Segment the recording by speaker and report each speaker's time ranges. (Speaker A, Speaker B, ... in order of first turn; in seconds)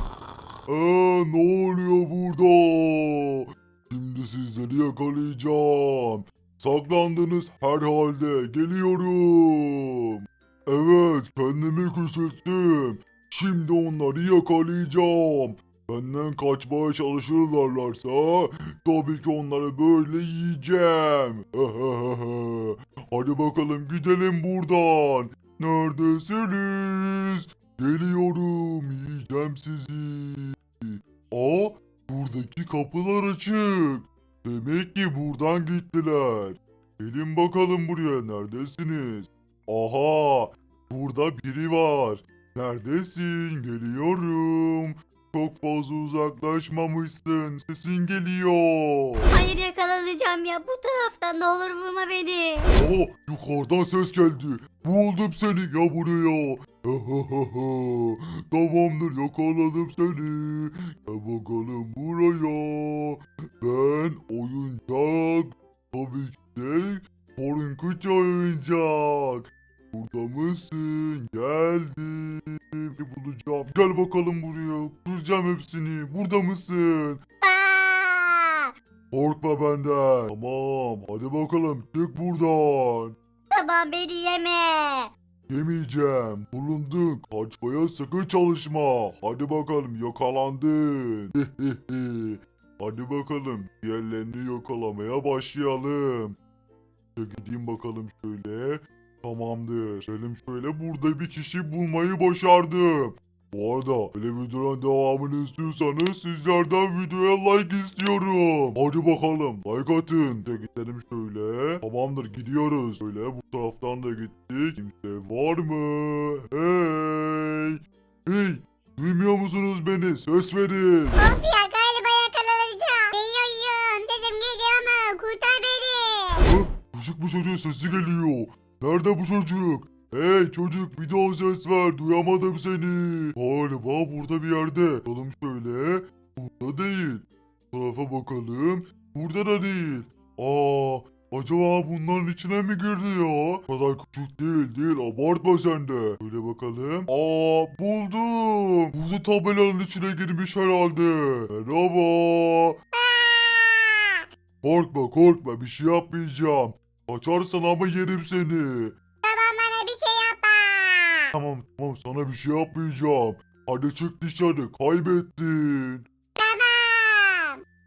Speaker A: 0.7-49.3, 52.7-77.2, 79.1-83.2, 85.5-96.4, 97.2-121.2, 126.5-152.8, 154.6-158.9, 161.3-166.0
Speaker B: 49.3-52.7, 77.4-78.7, 83.5-85.1
Speaker C: 121.2-126.5, 152.9-154.2, 159.2-161.3, 166.4-167.6